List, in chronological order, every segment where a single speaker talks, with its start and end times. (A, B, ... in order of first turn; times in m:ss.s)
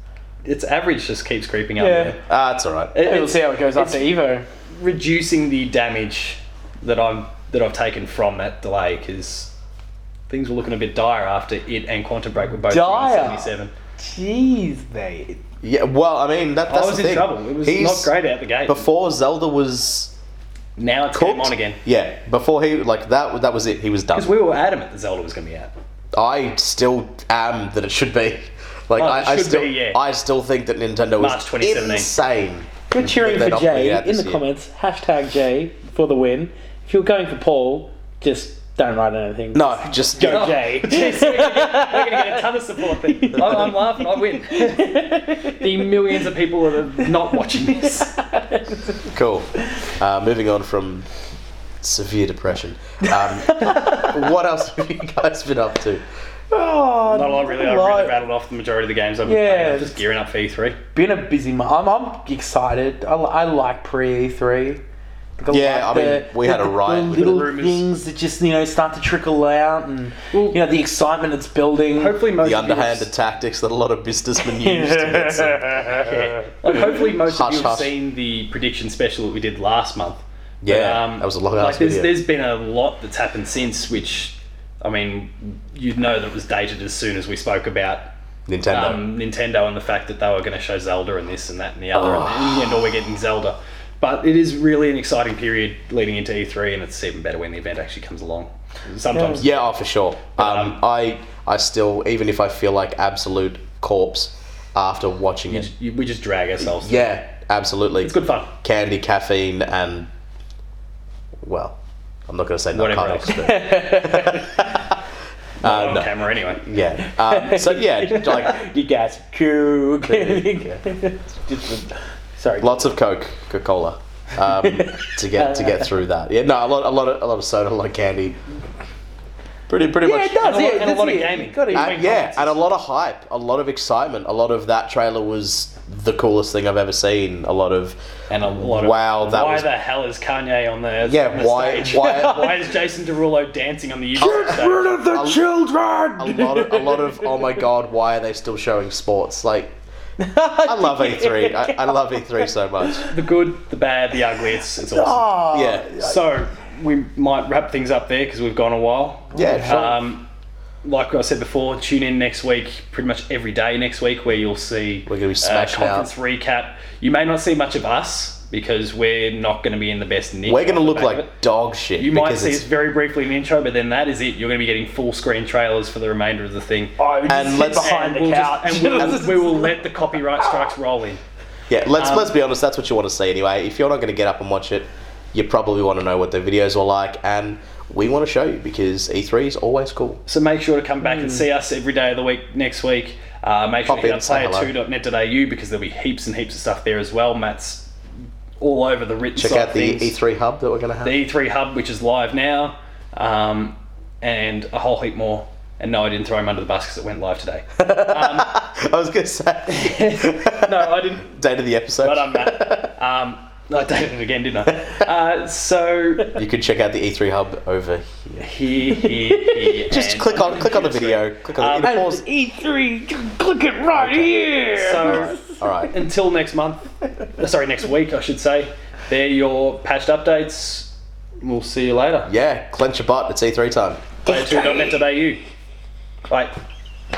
0:00.4-0:02.2 A
0:01.8-0:02.2 B
0:02.2-0:02.9 C
0:03.0-0:04.1 A
0:03.0-0:04.5 B
0:04.8-0:09.5 A
0:10.3-0:13.7 A
0:12.7-0:15.4 B
0:15.6-0:18.1 C
0:16.7-0:18.8 A
0:18.7-0:20.1 C
0:20.8-0:21.8 A
0:21.1-0:24.4 C
0:24.1-0:25.7 A
0:26.2-0:34.4 C
0:29.0-0:30.0 A
0:31.2-0:32.2 A
0:32.9-0:46.1 B
0:39.5-0:40.6 C
0:40.2-0:48.2 A
0:47.3-0:49.0 B
0:49.1-0:51.1 C
0:51.8-0:56.0 C
0:53.1-0:54.2 B
0:56.5-0:58.2 B
0:57.1-1:00.8 A
0:59.3-1:00.0 B
1:00.9-1:04.8 B
1:05.4-1:12.2 B
1:05.5-1:07.5 C
1:07.0-1:07.9 A
1:10.3-1:10.6 A
1:11.9-1:13.1 A
1:12.4-1:15.9 C
1:14.4-1:16.5 B
1:15.9-1:28.1 A
1:16.7-1:17.9 C
1:20.6-1:22.1 C
1:28.5-1:29.1 C
1:28.7-1:39.5 A
1:31.9-1:32.9 C
1:39.1-1:39.4 B
1:39.3-1:45.7 C
1:40.4-1:40.8 A
1:45.5-1:47.2 A
1:46.6-1:50.1 C
1:48.0-1:48.5 A
1:51.4-1:51.8 C
1:52.3-1:55.0 C
1:52.7-1:53.6 A
1:53.3-1:54.6 B
1:55.6-1:58.6 C
1:55.6-1:56.6 A
1:57.0-2:02.8 B
2:00.0-2:00.8 C
2:02.6-2:08.4 C
2:04.5-2:05.9 B
2:09.7-2:10.4 C
2:10.0-2:12.4 B
2:10.3-2:12.6 A
2:11.7-2:18.0 C
2:18.3-2:24.9 A
2:18.6-2:19.7 C
2:21.0-2:22.6 C
2:21.9-2:22.6 B
2:24.2-2:25.5 C
2:24.2-2:27.5 B
2:26.2-2:29.7 C
2:30.2-2:33.1 B
2:30.7-2:33.1 C
2:33.1-2:40.3 A
2:34.8-2:36.2 B
2:35.5-2:35.9 C
2:39.3-2:39.9 B
2:39.3-2:40.0 C
2:40.8-2:51.3 A
2:45.1-2:46.1 C
2:50.5-2:52.7 C
2:52.0-3:01.2 A
2:57.0-3:00.7 B
2:57.3-2:58.0 C
3:01.7-3:10.2 C
3:02.0-3:02.3 A
3:10.3-3:17.9 A
3:13.9-3:14.7 C
3:18.6-3:20.2 A
3:19.4-3:21.2 C
3:21.0-3:28.6 A
3:27.8-3:32.9 C
3:29.7-3:31.3 A
3:32.0-3:36.4 A
3:36.3-3:38.5 C
3:38.4-3:42.1 A
3:38.9-3:39.8 B
3:39.8-3:42.2 C
3:41.8-3:45.6 B
3:43.9-3:44.4 C
3:44.7-3:52.3 A
3:45.0-3:45.9 C
3:52.2-3:54.0 C
3:54.2-3:55.4 A
3:54.3-3:54.9 B
3:56.3-3:56.5 A